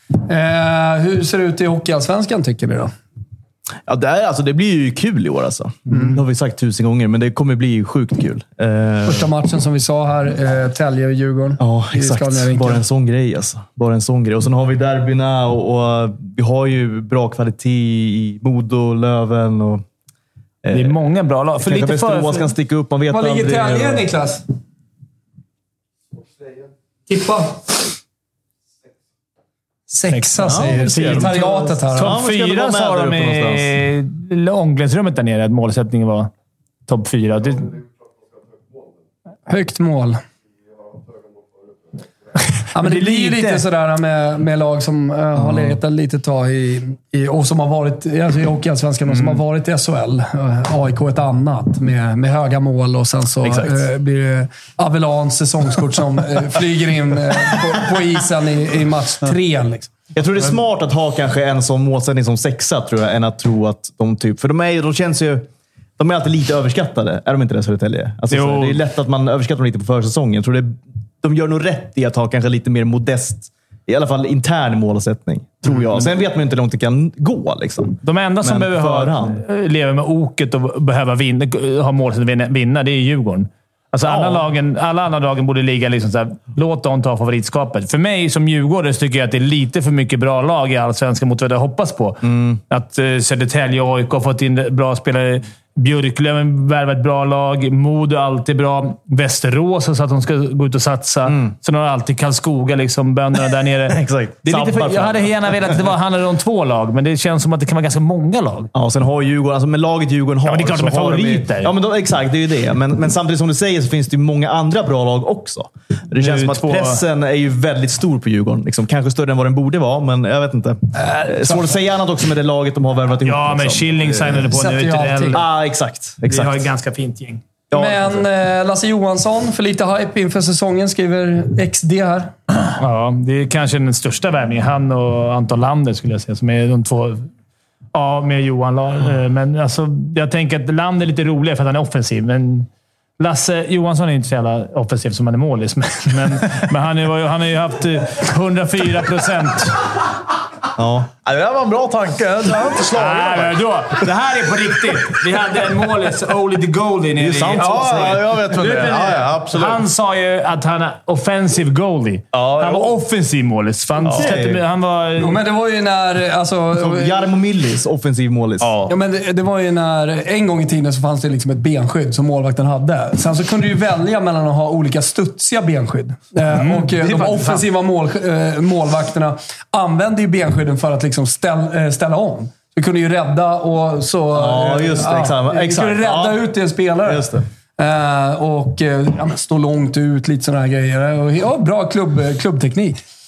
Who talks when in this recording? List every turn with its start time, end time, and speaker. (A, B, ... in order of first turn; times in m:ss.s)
0:00.2-0:02.9 A
0:03.9-0:09.3 B
0:05.9-0:06.2 A
0:09.0-0:12.8 A
0:11.6-0:19.8 B
0:20.6-0:21.0 B
0:20.7-0:22.5 C
0:21.6-0:24.1 B
0:23.1-0:24.4 A
0:27.1-0:27.7 A
0:29.9-0:32.2 A
0:30.1-0:36.3 C
0:30.4-0:33.7 B
0:36.9-0:37.8 C
0:39.5-0:40.2 A
0:42.7-0:59.9 A
0:42.8-0:43.6 B
0:49.1-0:49.4 C
0:53.4-0:53.8 B
1:00.1-1:19.4 B
1:08.3-1:08.8 C
1:18.0-1:48.7 C
1:24.0-1:24.5 B
1:32.2-1:32.6 B
1:41.2-1:41.5 B
1:43.9-1:45.7 B
1:48.7-2:04.4 B
1:50.4-1:51.7 C
1:56.2-1:57.0 C
2:00.9-2:01.8 A
2:03.2-2:05.4 C
2:04.4-2:05.4 A
2:05.3-2:06.7 B
2:06.2-2:07.4 C
2:07.7-2:08.2 B
2:07.7-2:12.3 A
2:12.8-2:17.3 C
2:17.9-2:22.7 C
2:23.2-2:29.8 C
2:30.8-2:31.1 B
2:31.2-2:33.6 D
2:32.9-2:45.4 C
2:37.2-2:38.2 B
2:37.4-2:39.8 D
2:42.3-2:43.0 D
2:44.1-2:44.6 B
2:45.2-2:47.3 A
2:46.8-2:48.7 B
2:48.6-2:48.9 D
2:48.9-3:13.0 A
2:56.5-2:57.6 C
3:04.3-3:06.5 B
3:07.0-3:07.4 B